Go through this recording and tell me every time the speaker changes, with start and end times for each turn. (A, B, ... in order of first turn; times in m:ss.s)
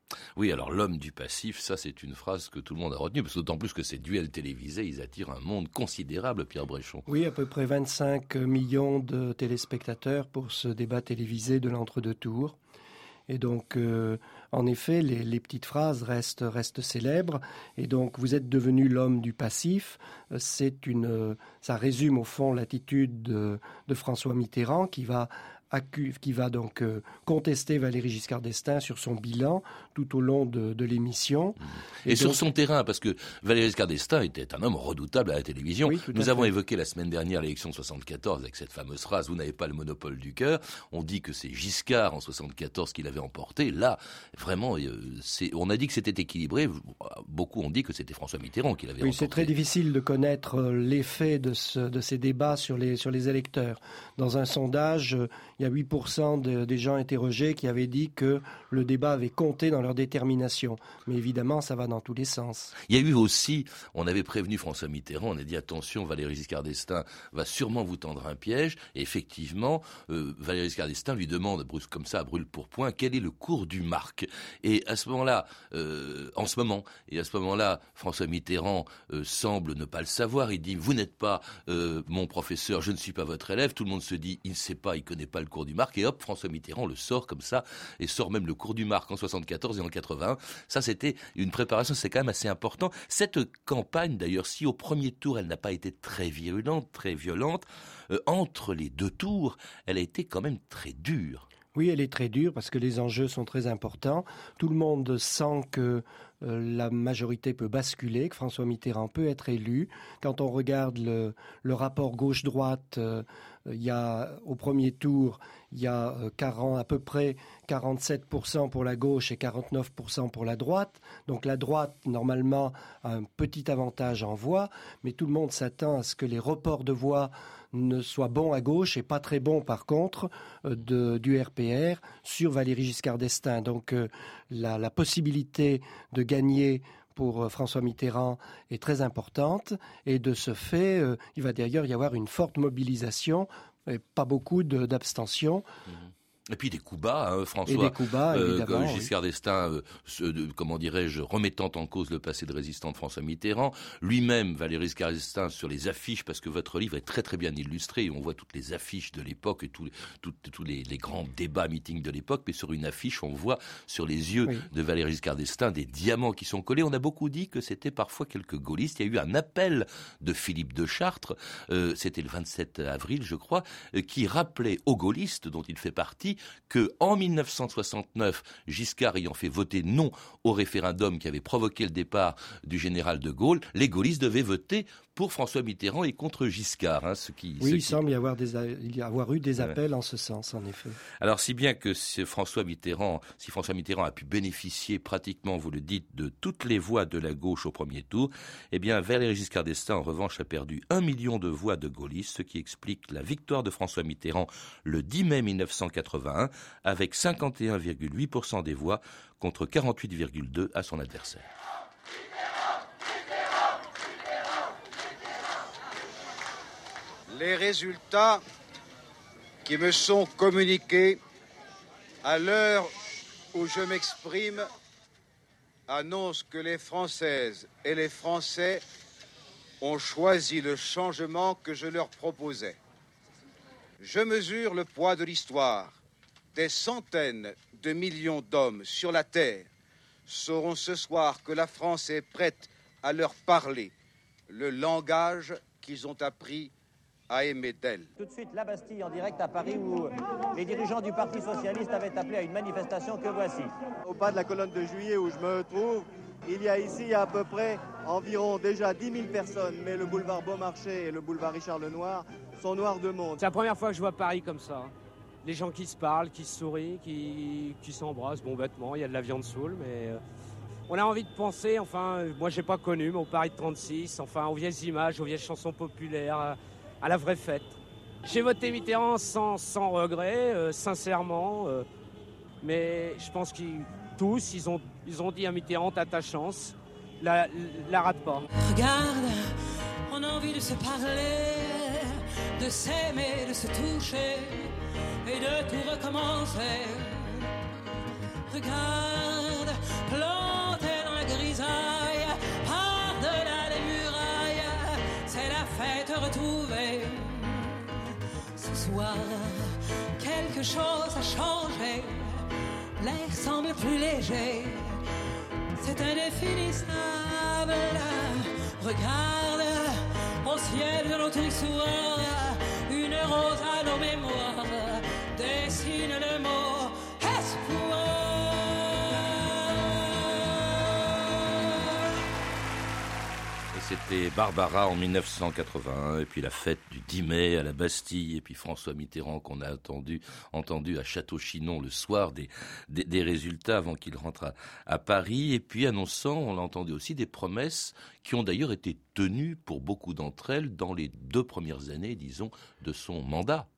0:00.4-0:07.1 A
0:07.1-0:12.6 B
0:13.3-0:32.4 B
0:32.1-0:49.5 A
0:35.8-0:36.5 B
0:49.0-1:02.7 B
1:02.8-1:41.5 A
1:41.7-2:25.6 B
2:25.9-3:08.0 A
2:27.7-2:29.1 B
3:07.6-3:11.0 B
3:11.2-3:31.5 A
3:37.3-3:38.4 C
3:39.6-3:41.2 C
3:42.2-3:42.9 C
3:43.5-3:44.7 C
3:45.9-3:48.8 C
3:49.8-3:52.8 C
3:54.0-3:56.0 C
3:56.5-3:59.7 C
4:00.3-4:03.9 C
4:04.5-4:06.7 C
4:07.3-4:08.1 C
4:08.2-4:13.7 D
4:14.1-4:23.4 E
4:23.4-4:24.9 F
4:25.4-4:30.2 F
4:30.9-4:41.9 F
4:42.6-4:48.5 F
4:48.6-4:57.5 G
4:58.5-5:08.0 G
5:08.6-5:12.5 G
5:13.0-5:15.0 G
5:15.8-5:30.6 G
5:31.4-5:31.7 G
5:33.7-5:53.7 A